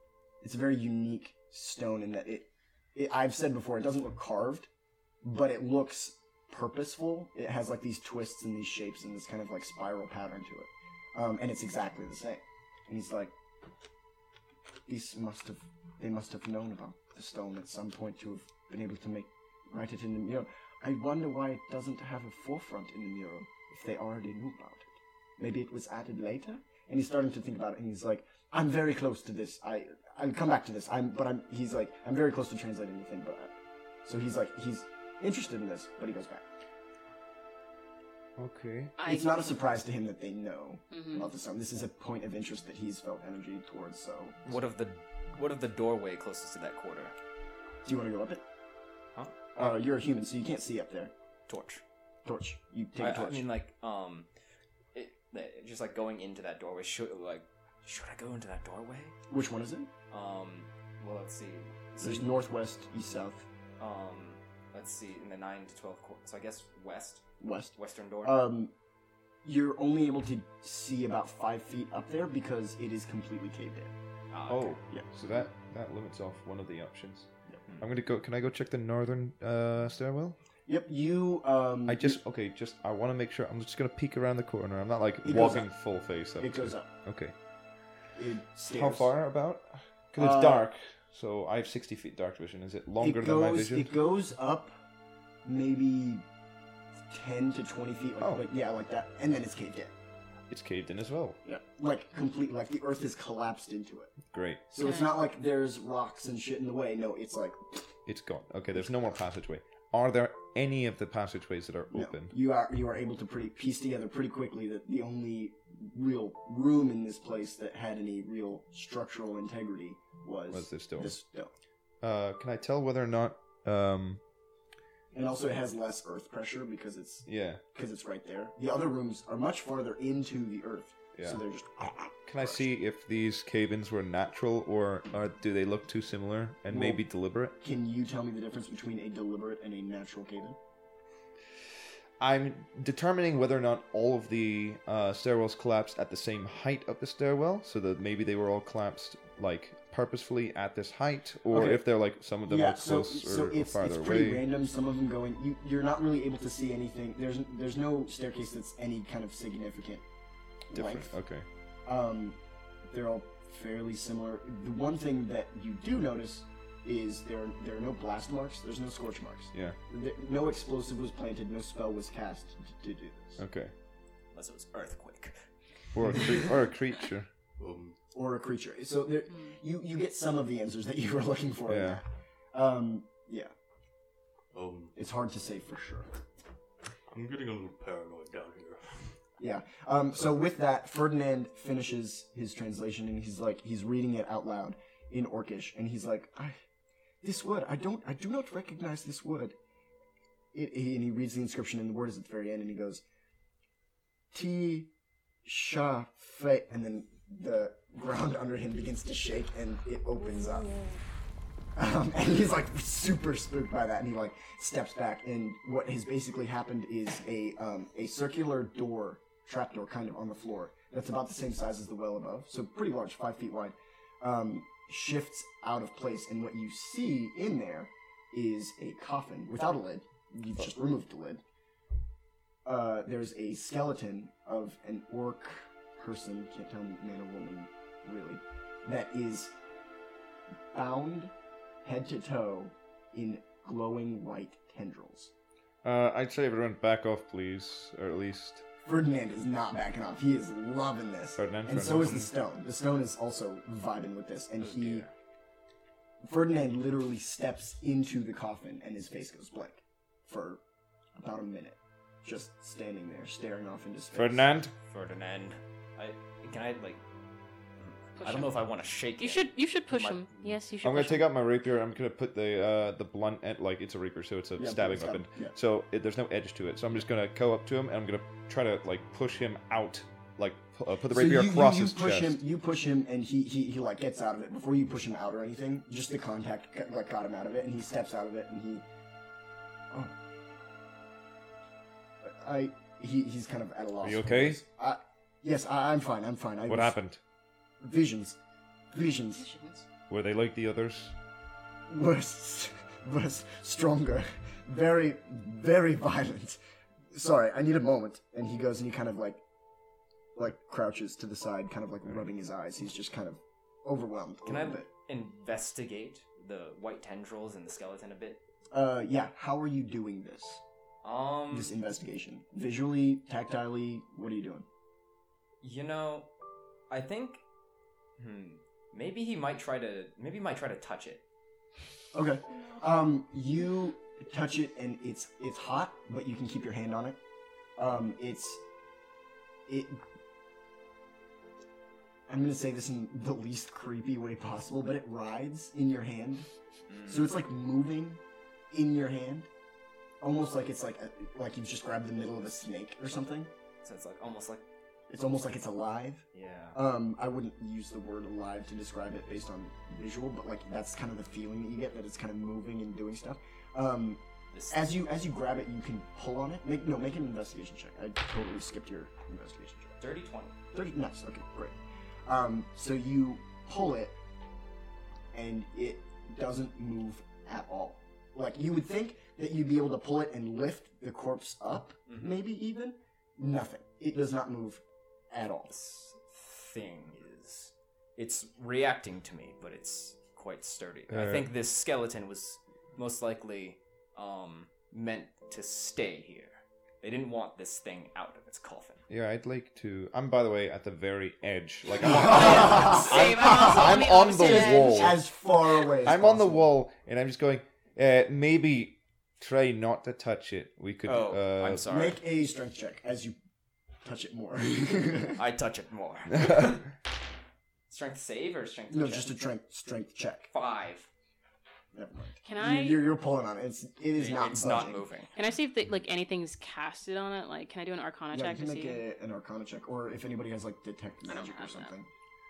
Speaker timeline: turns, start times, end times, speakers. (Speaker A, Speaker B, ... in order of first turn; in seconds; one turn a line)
Speaker A: 0.4-4.7
Speaker A: 5.2-13.3
Speaker A: 14.9-36.4
Speaker B: 38.4-39.0
Speaker C: 39.0-39.5
Speaker A: 39.0-44.4
Speaker C: 40.9-41.3
Speaker D: 44.5-47.1
Speaker A: 47.8-48.4
Speaker D: 49.1-49.5
Speaker A: 49.5-51.1
Speaker D: 51.5-51.8
Speaker A: 52.2-53.5
Speaker D: 53.0-54.3
Speaker D: 54.9-59.1
Speaker A: 59.3-59.9
Speaker D: 60.1-62.3
Speaker A: 62.0-63.5
Speaker D: 63.8-68.4
Speaker A: 67.4-68.7
Speaker A: 69.4-73.9
Speaker D: 74.3-74.8
Speaker B: 74.5-80.4
Speaker A: 80.7-82.2
Speaker B: 81.9-87.3
Speaker A: 85.2-86.9
Speaker A: 88.2-89.1
Speaker B: 88.7-93.9
Speaker A: 90.2-90.7
Speaker A: 93.0-94.7
Speaker A: 95.4-96.2
Speaker A: 97.1-99.9
Speaker B: 100.5-101.4
Speaker A: 101.4-104.2
Speaker B: 104.3-104.7
Speaker A: 104.7-107.9
Speaker C: 104.8-105.1
Speaker B: 108.0-112.3
Speaker A: 111.9-121.5
Speaker B: 120.5-121.2
Speaker B: 122.0-124.2
Speaker A: 125.1-132.7
Speaker B: 127.2-127.6
Speaker B: 132.2-137.5
Speaker A: 136.7-137.0
Speaker A: 137.6-140.6
Speaker B: 142.2-154.4
Speaker A: 151.5-151.8
Speaker A: 152.4-160.0
Speaker A: 160.7-161.1
Speaker B: 160.7-161.4
Speaker A: 161.8-173.4
Speaker B: 173.4-173.7
Speaker D: 174.3-175.3
Speaker B: 175.9-177.3
Speaker E: 177.6-177.9
Speaker A: 178.1-183.5
Speaker B: 181.7-182.0
Speaker E: 184.5-184.9
Speaker A: 184.9-186.1
Speaker E: 187.1-189.1
Speaker A: 189.4-196.6
Speaker A: 197.2-199.6
Speaker A: 200.5-203.0
Speaker A: 204.3-204.9
Speaker A: 205.4-210.9
Speaker A: 211.7-231.4
Speaker A: 232.6-239.5
Speaker A: 240.7-241.3
Speaker A: 241.8-245.3
Speaker B: 245.8-248.7
Speaker A: 248.8-255.1
Speaker B: 251.4-252.3
Speaker D: 254.6-255.1
Speaker A: 256.2-260.6
Speaker A: 261.2-264.4
Speaker B: 264.1-264.7
Speaker D: 264.9-267.0
Speaker D: 267.8-270.5
Speaker C: 268.2-268.6
Speaker C: 269.2-271.3
Speaker B: 270.8-282.4
Speaker A: 274.6-275.5
Speaker A: 281.1-288.8
Speaker A: 292.2-296.9
Speaker B: 294.0-294.6
Speaker B: 296.7-297.2
Speaker A: 297.8-298.4
Speaker A: 298.9-299.5
Speaker C: 299.3-299.9
Speaker B: 300.1-301.1
Speaker A: 301.9-306.6
Speaker A: 307.1-309.4
Speaker A: 310.4-314.9
Speaker D: 314.4-318.4
Speaker A: 318.7-320.6
Speaker D: 321.0-321.7
Speaker A: 321.5-324.6
Speaker D: 325.6-326.3
Speaker D: 326.9-327.4
Speaker D: 328.2-331.2
Speaker A: 332.1-337.2
Speaker C: 332.6-332.8
Speaker A: 337.8-338.6
Speaker A: 339.7-340.0
Speaker A: 342.3-346.5
Speaker D: 346.9-347.3
Speaker A: 347.1-348.2
Speaker A: 348.7-349.5
Speaker A: 350.2-353.5
Speaker D: 353.8-354.6
Speaker A: 355.1-370.0
Speaker D: 356.3-356.8
Speaker D: 364.5-364.9
Speaker D: 370.0-370.5
Speaker A: 370.7-371.7
Speaker A: 372.2-374.2
Speaker A: 375.3-385.7
Speaker D: 382.1-382.4
Speaker D: 385.7-399.0
Speaker B: 391.1-391.5
Speaker B: 399.1-405.2
Speaker A: 402.0-406.7
Speaker C: 402.2-405.2
Speaker B: 406.0-411.9
Speaker D: 411.0-412.2
Speaker A: 411.9-413.4
Speaker A: 414.0-415.4
Speaker D: 415.4-416.8
Speaker D: 417.9-419.3
Speaker A: 418.9-420.5
Speaker D: 420.5-421.1
Speaker A: 421.9-425.1
Speaker C: 422.4-423.0
Speaker D: 424.1-425.3
Speaker C: 425.3-429.0
Speaker A: 428.3-432.1
Speaker C: 431.2-431.9